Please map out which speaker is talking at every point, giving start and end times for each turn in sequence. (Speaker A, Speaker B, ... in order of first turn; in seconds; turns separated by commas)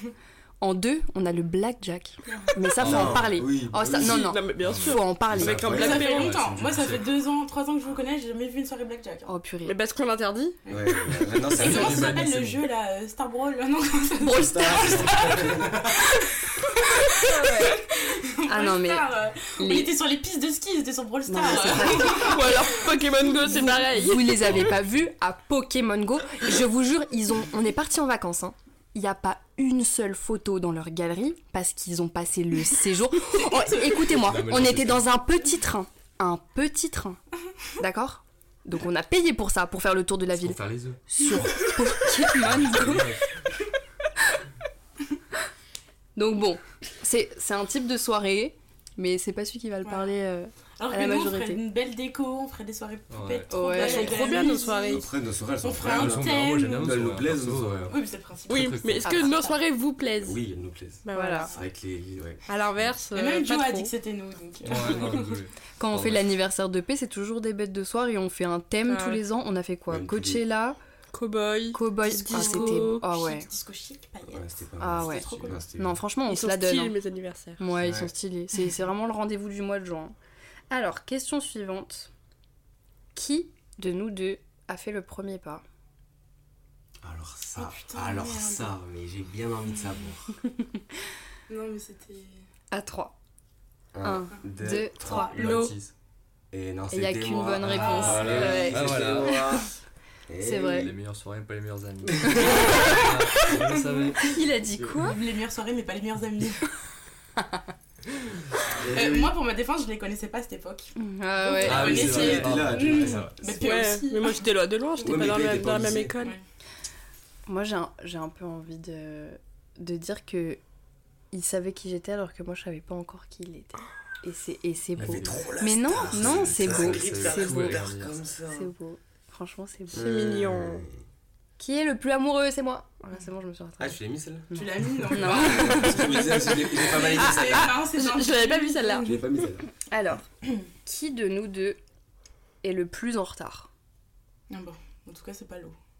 Speaker A: 0.6-5.6, Speaker B: 2.3-2.5, Speaker C: 2.8-4.4, Speaker D: 2.8-3.3, Speaker D: 3.9-6.3, Speaker E: 4.6-7.1, Speaker C: 5.3-6.0, Speaker B: 5.7-9.3, Speaker A: 9.3-9.8, Speaker D: 9.6-10.6, Speaker B: 10.6-17.1, Speaker C: 10.7-12.2, Speaker E: 11.5-12.6, Speaker A: 14.2-15.1, Speaker C: 14.3-16.0, Speaker D: 17.2-17.8, Speaker B: 17.6-22.6, Speaker A: 18.5-19.9, Speaker A: 21.3-22.3, Speaker D: 22.1-24.5, Speaker A: 23.4-37.2, Speaker E: 34.1-35.0, Speaker A: 37.8-43.1, Speaker E: 40.3-41.0, Speaker E: 42.3-43.3, Speaker A: 46.1-51.6, Speaker B: 49.8-50.1, Speaker B: 50.8-55.0, Speaker E: 53.1-53.6, Speaker A: 53.5-54.3, Speaker D: 53.6-55.1, Speaker C: 54.9-57.9, Speaker B: 55.6-57.0, Speaker E: 55.8-58.0, Speaker B: 57.9-59.2, Speaker D: 58.5-60.4, Speaker E: 58.5-59.1, Speaker A: 59.0-59.6, Speaker C: 60.2-62.4, Speaker D: 61.0-61.5, Speaker A: 61.1-61.5, Speaker D: 62.5-63.9, Speaker B: 63.1-65.4, Speaker E: 64.6-66.3, Speaker A: 65.8-70.8, Speaker D: 68.8-69.2, Speaker C: 69.9-70.4, Speaker D: 71.1-73.0, Speaker A: 71.7-73.5, Speaker B: 72.0-75.6, Speaker C: 74.3-76.0, Speaker A: 74.8-76.9, Speaker D: 76.3-77.6, Speaker A: 77.6-80.2, Speaker C: 77.8-78.1, Speaker A: 80.7-82.1, Speaker A: 83.1-85.6, Speaker C: 87.0-90.3, Speaker B: 87.5-88.8, Speaker B: 91.5-92.4, Speaker A: 92.7-93.1, Speaker C: 93.9-95.7, Speaker A: 94.0-95.4, Speaker B: 95.0-95.6, Speaker E: 95.3-95.9, Speaker D: 95.4-95.7, Speaker C: 96.5-99.7, Speaker A: 96.9-99.6, Speaker E: 97.7-99.3, Speaker B: 97.8-98.3, Speaker C: 100.3-100.9, Speaker A: 100.4-100.9, Speaker E: 100.7-104.3, Speaker C: 102.1-102.5, Speaker A: 104.2-105.2, Speaker C: 104.7-105.0, Speaker B: 105.0-106.7, Speaker C: 108.7-109.3, Speaker B: 108.9-115.4, Speaker A: 111.0-111.9, Speaker E: 111.6-113.3, Speaker C: 111.6-113.5, Speaker D: 113.6-116.3, Speaker C: 115.0-116.1, Speaker A: 117.5-120.6, Speaker A: 121.3-127.9, Speaker E: 125.0-125.3, Speaker C: 125.0-128.7, Speaker E: 125.9-128.1, Speaker A: 128.5-130.1, Speaker C: 129.9-131.0, Speaker D: 129.9-130.8, Speaker A: 131.6-136.4, Speaker C: 133.8-134.5, Speaker B: 134.5-139.1, Speaker C: 135.2-137.7, Speaker D: 137.4-139.1, Speaker C: 139.0-139.7, Speaker A: 139.9-140.2, Speaker A: 140.8-141.8, Speaker A: 142.6-143.7, Speaker B: 144.5-145.8